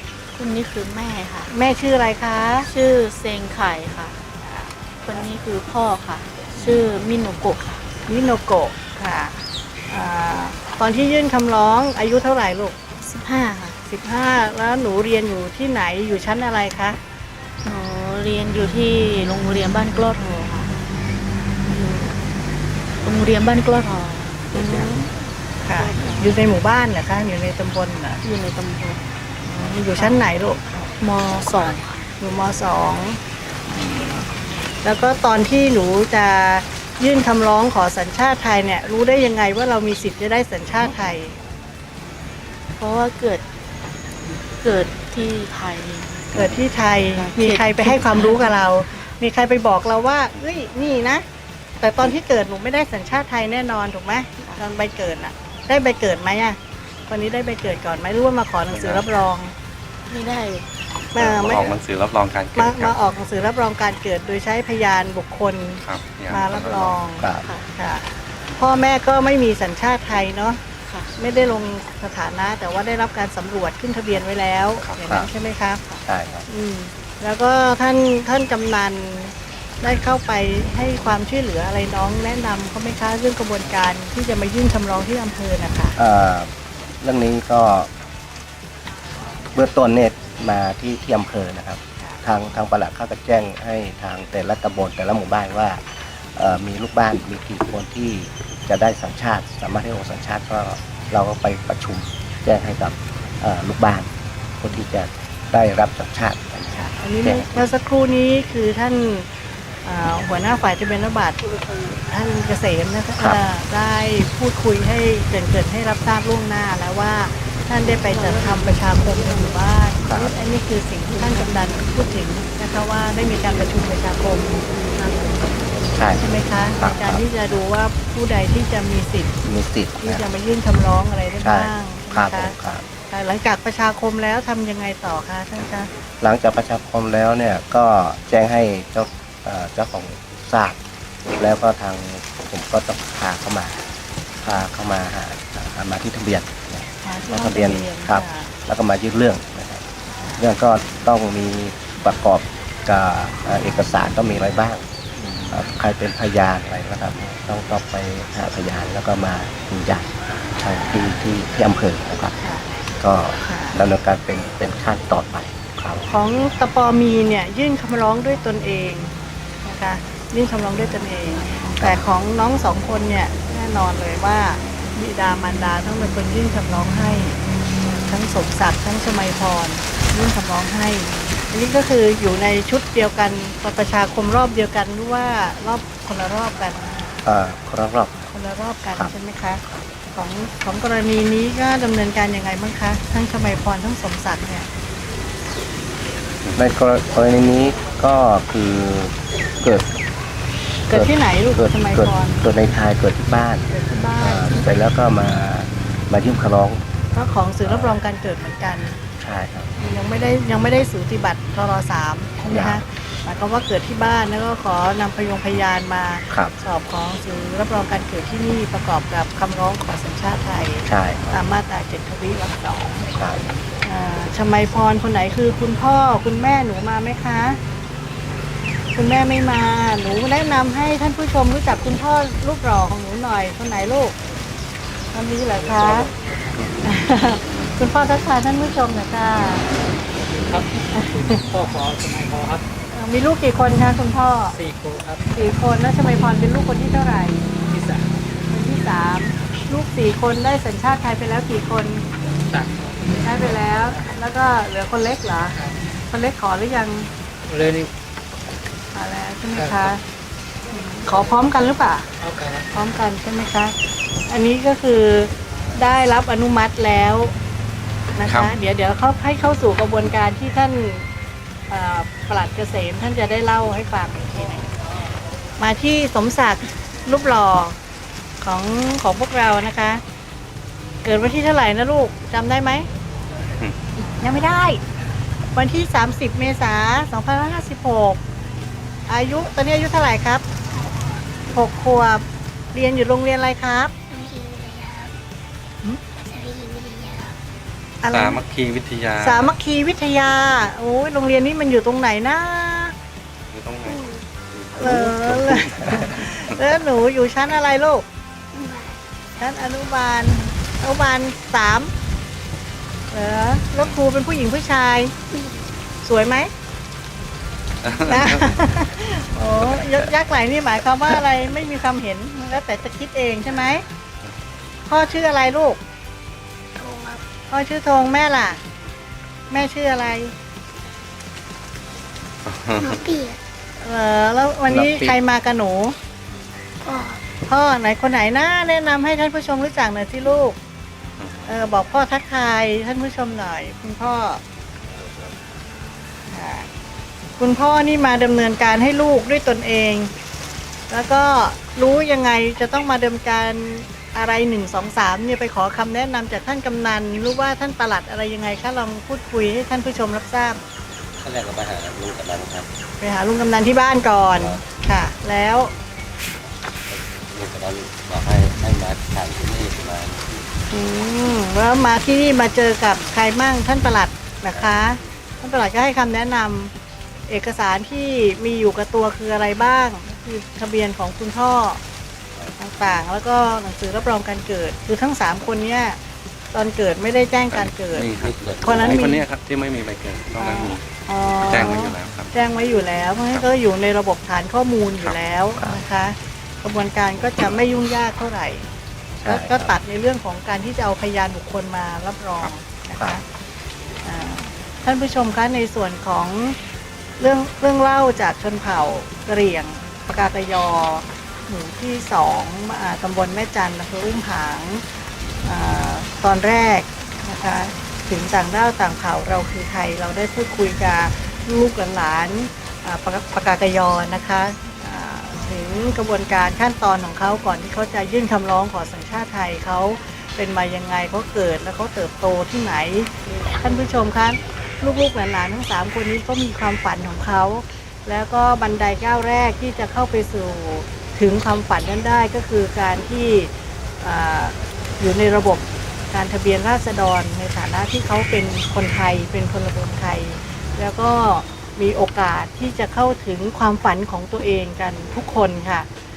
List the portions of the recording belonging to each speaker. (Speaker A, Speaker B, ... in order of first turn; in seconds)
Speaker A: 0.3-1.5, 2.7-4.2, 5.0-7.9, 13.0-13.8, 17.6-20.7, 21.6-22.2, 23.0-25.1, 25.7-26.4, 28.2-29.0, 29.9-32.0, 42.8-43.4, 44.6-46.2, 47.1-48.5, 60.1-61.5, 70.9-71.2, 75.8-76.4, 117.8-119.6, 121.1-121.8, 290.7-291.2, 294.1-295.1, 296.2-297.4, 303.8-304.2, 308.5-309.0, 315.3-315.7, 326.8-327.2, 332.8-333.4, 336.9-337.2
Speaker B: 1.5-2.7, 4.4-5.3, 8.1-12.8, 13.9-17.0, 24.5-25.1, 25.6-28.2, 29.4-30.6, 32.2-34.3, 34.8-41.4, 46.3-51.2, 51.8-56.6, 57.1-59.5, 61.1-61.8, 62.5-70.6, 71.2-75.8, 76.5-86.0, 106.7-109.3, 109.8-125.5, 126.1-129.3, 130.0-132.6, 133.1-135.9, 147.0-148.5, 155.2-155.6, 162.4-162.7, 163.4-163.8, 166.1-177.4, 178.0-187.2, 188.3-189.6, 190.1-194.7, 200.9-202.4, 203.7-204.7, 207.1-209.0, 209.8-223.1, 223.8-227.6, 228.9-234.1, 235.1-236.1, 236.8-239.7, 240.9-241.4, 242.9-244.6, 245.3-247.5, 248.5-252.1, 253.2-255.6, 256.1-257.1, 258.9-260.0, 260.7-262.1, 262.7-263.8, 264.3-267.3, 268.1-271.1, 271.7-274.8, 275.6-277.8, 278.4-280.0, 281.0-282.9, 284.2-284.8, 285.5-288.2, 289.1-290.4, 291.5-293.9, 298.0-298.4, 299.2-302.9, 304.8-308.1, 309.4-311.9, 313.1-315.1, 316.0-316.5, 318.1-323.9, 324.9-325.8, 327.5-328.6, 329.5-330.3, 333.8-336.0, 337.5-340.6, 341.5-344.4, 346.3-346.7, 347.4-350.1, 350.9-360.6, 363.0-365.7, 370.7-376.7, 377.3-381.8, 382.6-386.0, 386.5-388.1, 388.6-389.2, 390.4-398.7, 399.2-403.2, 404.0-406.6, 407.2-414.8, 415.4-455.9
Speaker C: 58.7-59.0, 61.1-62.9, 65.8-67.0, 268.3-268.5, 298.1-299.5, 303.5-306.6, 317.8-318.6, 332.5-333.0, 334.7-335.1, 341.2-341.6, 387.5-390.8, 391.4-392.3
Speaker D: 67.2-67.5, 75.0-75.3, 76.1-76.5, 86.0-87.9, 89.5-107.7, 120.0-120.3, 125.9-126.2, 126.8-127.2, 129.4-130.3, 131.4-132.8, 136.2-140.8, 141.4-143.8, 144.4-149.8, 150.4-154.8, 155.5-162.3, 163.0-166.1, 171.8-172.0, 187.2-188.3, 196.6-199.9, 200.9-203.7, 204.2-206.8, 207.6-208.0, 209.2-209.7, 212.5-212.8, 220.9-221.4, 223.1-223.4, 399.2-399.7
Speaker E: 235.5-236.7, 240.2-242.6, 244.5-245.2, 247.6-248.3, 252.3-254.2, 255.5-255.8, 257.5-257.9, 259.5-260.0, 262.2-262.7
Speaker F: 361.2-362.7, 364.4-364.6, 366.9-370.3, 388.2-389.0